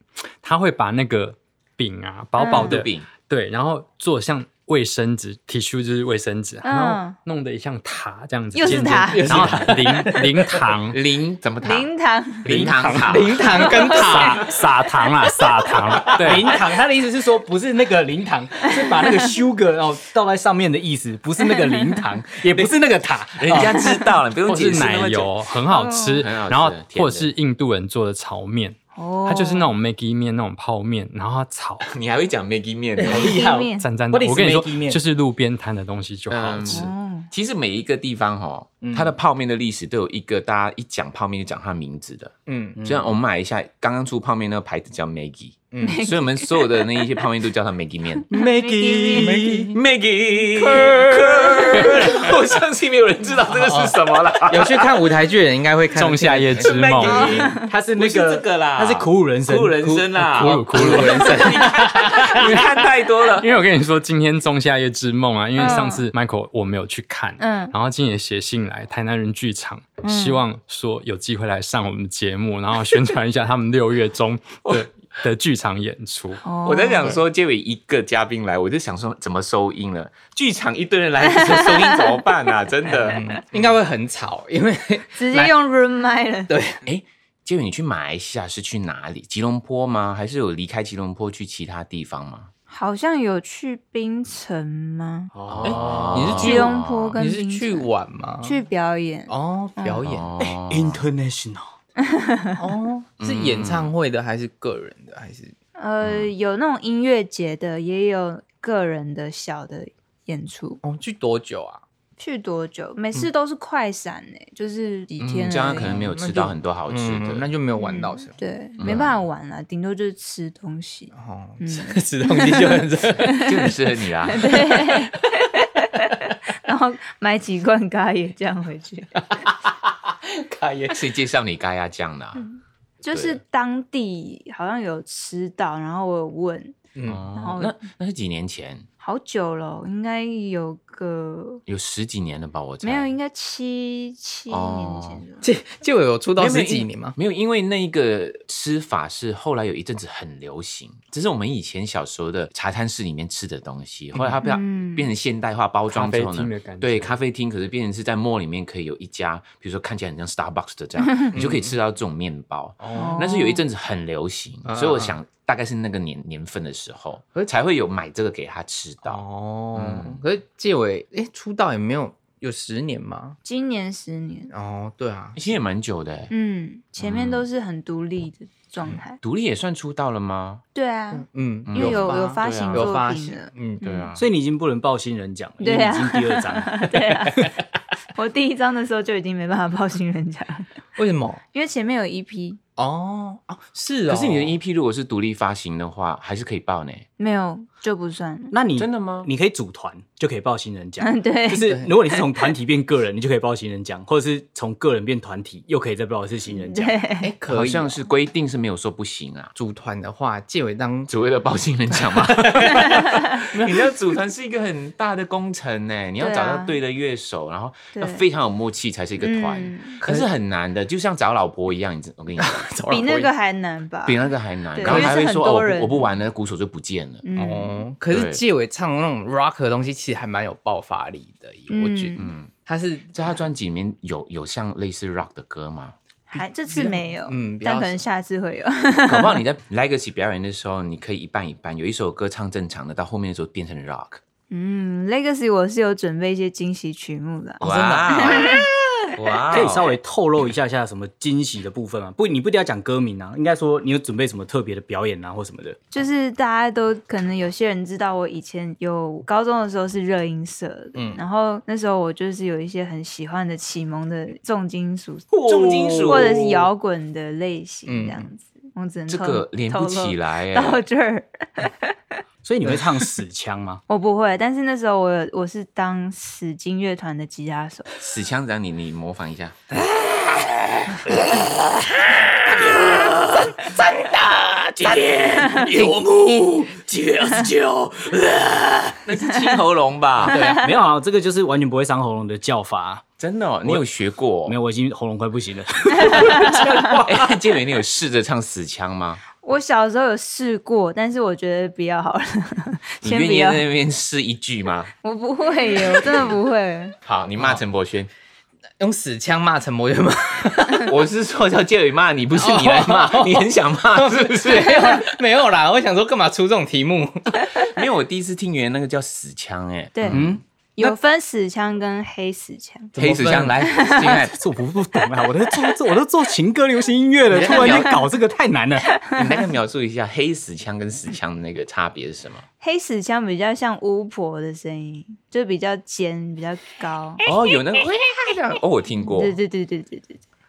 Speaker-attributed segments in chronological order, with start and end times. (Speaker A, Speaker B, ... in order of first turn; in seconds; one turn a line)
Speaker A: 0.4-11.0
Speaker B: 2.4-2.8
Speaker C: 2.5-3.1
Speaker B: 6.6-7.2
Speaker B: 8.5-9.7
Speaker D: 9.1-10.5
Speaker C: 10.9-11.9
Speaker B: 11.6-12.5
Speaker C: 12.4-13.6
Speaker A: 12.4-16.6
Speaker D: 13.0-14.6
Speaker B: 13.5-14.6
Speaker E: 16.1-24.0
Speaker B: 18.7-19.2
Speaker C: 23.3-25.3
Speaker A: 24.4-31.9
Speaker B: 25.7-26.2
Speaker C: 26.2-27.3
Speaker B: 28.9-29.7
Speaker C: 31.9-33.4
Speaker B: 33.0-33.9
Speaker E: 33.0-35.0
Speaker A: 33.8-36.9
Speaker C: 36.3-48.3
Speaker B: 36.7-37.3
Speaker D: 38.8-39.1
Speaker D: 42.5-42.8
Speaker E: 42.8-43.1
Speaker D: 45.7-46.0
Speaker B: 45.8-46.9
Speaker B: 48.3-49.6
Speaker E: 48.3-49.7
Speaker D: 49.1-49.7
Speaker C: 49.7-55.1
Speaker D: 51.5-52.0
Speaker D: 53.5-57.3
Speaker A: 55.9-57.5
Speaker C: 56.6-63.5
Speaker B: 57.1-57.7
Speaker E: 57.6-60.3
Speaker D: 60.2-62.3
Speaker A: 60.3-76.4
Speaker B: 65.6-66.0
Speaker B: 67.4-67.7
Speaker B: 70.0-70.4
Speaker B: 76.4-77.2
Speaker C: 76.6-83.7
Speaker B: 81.4-82.1
Speaker D: 82.9-85.5
Speaker B: 85.2-86.5
Speaker D: 86.5-86.8
Speaker C: 86.8-92.5
Speaker B: 92.7-95.3
Speaker E: 95.3-96.4
Speaker C: 95.5-97.2
Speaker D: 95.6-98.6
Speaker B: 96.3-97.9
Speaker B: 98.4-100.0
Speaker D: 99.3-100.3
Speaker C: 100.0-101.0
Speaker E: 100.4-101.7
Speaker B: 102.0-102.5
Speaker D: 102.6-105.5
Speaker C: 103.2-103.9
Speaker B: 105.8-110.8
Speaker C: 106.0-106.3
Speaker D: 110.8-111.8
Speaker B: 112.2-116.0
Speaker C: 115.2-117.5
Speaker D: 115.6-118.4
Speaker B: 117.7-123.7
Speaker C: 118.8-119.2
Speaker D: 121.1-123.5
Speaker C: 123.2-124.7
Speaker B: 124.2-129.2
Speaker D: 124.6-125.4
Speaker D: 129.2-131.0
Speaker C: 130.9-132.4
Speaker B: 132.3-136.8
Speaker C: 133.1-133.4
Speaker D: 136.9-137.3
Speaker C: 137.0-138.9
Speaker B: 137.3-137.8
Speaker B: 139.0-141.6
Speaker C: 141.7-143.1
Speaker B: 142.8-145.5
Speaker C: 144.5-145.2
Speaker D: 145.4-147.2
Speaker C: 146.4-169.2
Speaker B: 154.4-155.1
Speaker A: 155.9-157.2
Speaker D: 161.3-161.7
Speaker D: 162.8-163.2
Speaker B: 162.9-163.6
Speaker D: 164.7-165.2
Speaker D: 169.0-173.4
Speaker C: 169.7-170.2
Speaker B: 173.4-174.5
Speaker D: 174.5-175.4
Speaker C: 175.3-176.3
Speaker B: 176.3-179.2
Speaker C: 177.0-177.5
Speaker C: 179.2-180.6
Speaker B: 180.7-184.1
Speaker D: 181.1-183.8
Speaker C: 181.7-183.0
Speaker C: 183.8-184.3
Speaker E: 184.2-187.5
Speaker B: 185.6-187.5
Speaker B: 188.1-190.7
Speaker D: 191.0-191.4
Speaker B: 191.5-192.6
Speaker D: 192.8-194.6
Speaker C: 194.1-197.0
Speaker B: 197.2-198.5
Speaker E: 198.5-207.0
Speaker C: 198.7-199.3
Speaker B: 201.0-202.2
Speaker B: 206.5-207.3
Speaker D: 207.2-208.0
Speaker C: 207.5-209.5
Speaker D: 209.5-211.1
Speaker C: 211.1-223.2
Speaker D: 212.2-213.9
Speaker B: 212.9-213.3
Speaker B: 216.2-216.8
Speaker B: 217.9-218.2
Speaker B: 219.2-220.0
Speaker D: 220.0-220.3
Speaker D: 222.4-223.2
Speaker B: 222.9-224.2
Speaker C: 224.1-227.2
Speaker B: 224.7-226.0
Speaker D: 224.8-225.1
Speaker B: 227.2-227.8
Speaker D: 227.3-233.2
Speaker C: 228.1-228.4
Speaker B: 231.7-232.3
Speaker C: 232.2-232.5
Speaker C: 233.1-235.9
Speaker B: 236.3-239.4
Speaker D: 236.3-238.0
Speaker C: 239.0-244.2
Speaker B: 244.5-248.7
Speaker C: 247.6-248.6
Speaker D: 247.6-248.2
Speaker C: 249.1-249.9
Speaker E: 249.5-255.8
Speaker B: 255.9-265.3
Speaker D: 260.9-261.2
Speaker E: 265.3-266.4
Speaker C: 265.4-266.7
Speaker B: 266.0-272.2
Speaker D: 267.9-268.3
Speaker C: 269.1-270.8
Speaker E: 272.4-273.8
Speaker B: 273.9-277.9
Speaker C: 278.0-290.4
Speaker D: 285.6-286.0
Speaker B: 290.3-290.7
Speaker D: 290.3-290.6
Speaker E: 290.4-293.1
Speaker C: 293.2-294.6
Speaker E: 294.4-297.2
Speaker C: 296.1-299.2
Speaker B: 299.4-303.6
Speaker C: 303.0-304.9
Speaker B: 305.0-306.9
Speaker C: 305.8-306.3
Speaker C: 307.0-308.1
Speaker D: 308.8-310.9
Speaker C: 310.8-315.0
Speaker D: 312.4-317.6
Speaker C: 317.5-320.4
Speaker B: 319.9-322.9
Speaker E: 320.1-320.4
Speaker D: 322.9-323.7
Speaker C: 323.0-324.4
Speaker B: 323.6-324.2
Speaker E: 324.3-328.9
Speaker D: 327.3-327.9
Speaker C: 327.3-327.9
Speaker C: 329.1-332.4
Speaker B: 332.6-337.2
Speaker C: 337.2-339.4
Speaker B: 339.1-340.2